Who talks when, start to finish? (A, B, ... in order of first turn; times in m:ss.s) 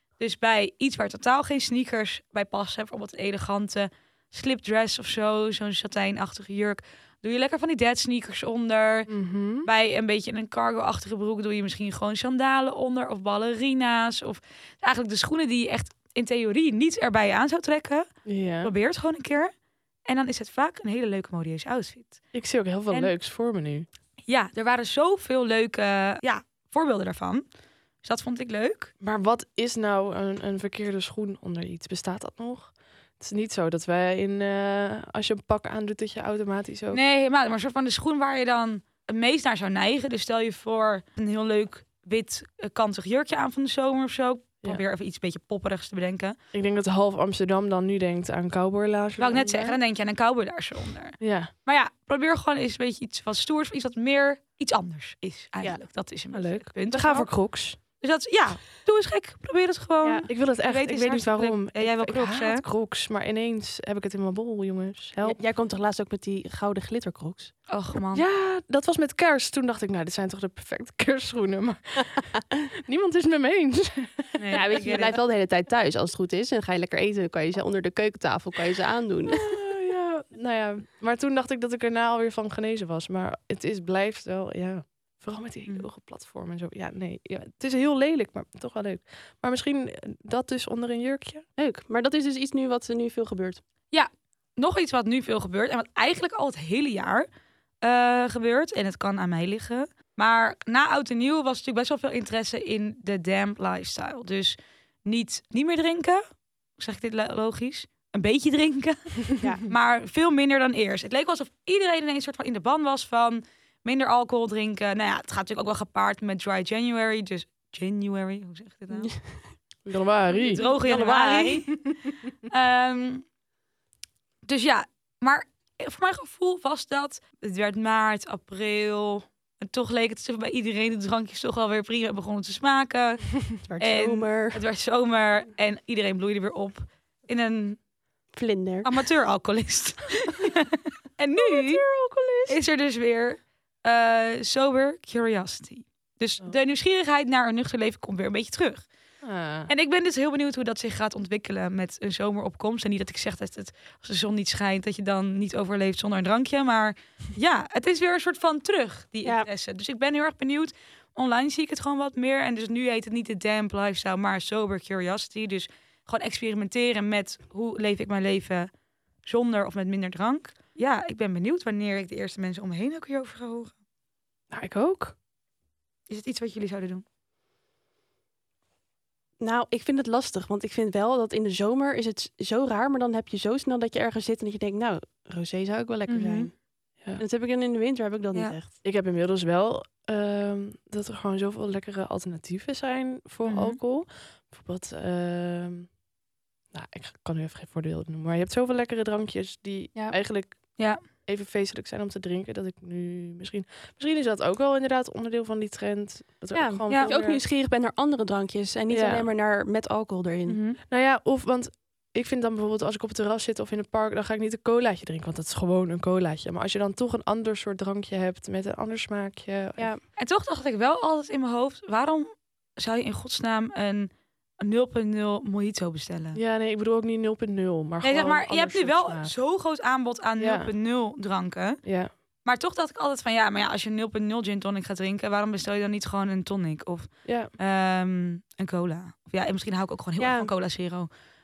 0:00.2-0:09.1 A
0:09.1-0:09.7 B
0:09.6-0:18.1 A
0:18.2-0:18.7 B
0:18.6-0:19.5 A
0:20.0-0:22.2 A
0:22.3-0:23.8 B
0:24.3-0:27.4 A
0:28.0-0:28.9 A
0:29.0-0:37.0 B
0:36.9-0:46.4 A
0:46.5-0:49.8 B
0:49.2-1:02.6 A
0:51.2-0:51.5 B
0:56.3-0:57.8 B
1:00.3-1:05.4 B
1:05.2-1:07.5 C
1:07.7-1:08.2 A
1:08.1-1:12.3 B
1:12.8-1:14.3 B
1:14.4-1:15.2 A
1:14.5-1:19.5 C
1:19.3-1:31.4 B
1:31.6-1:33.6 C
1:33.9-1:37.3 A
1:37.8-1:46.2 A
1:46.8-1:59.2 A
1:49.4-1:49.6 C
1:58.9-1:59.4 C
1:59.8-2:00.6 B
2:00.4-2:01.8 A
2:00.5-2:01.7 C
2:02.5-2:03.2 A
2:04.4-2:17.8 A
2:13.6-2:14.6 C
2:18.3-2:18.9 C
2:18.8-2:21.8 A
2:21.4-2:22.5 B
2:22.5-2:28.8 A
2:29.2-2:29.7 B
2:29.7-2:48.7 A
2:49.2-2:53.7 A
2:54.5-2:55.2 B
2:56.1-2:57.0 A
2:59.4-3:06.6 C
3:06.1-3:06.5 A
3:07.2-3:08.7 C
3:08.8-3:15.9 B
3:13.4-3:13.8 A
3:16.7-3:27.4 B
3:26.5-3:30.6 C
3:28.9-3:29.3 B
3:30.5-3:30.8 A
3:30.9-3:39.9 B
3:40.2-3:46.4 A
3:46.3-3:49.3 B
3:48.0-3:51.8 A
3:50.4-3:50.7 B
3:51.8-3:52.1 B
3:52.4-4:01.1 A
3:57.2-3:57.5 B
4:00.2-4:00.5 C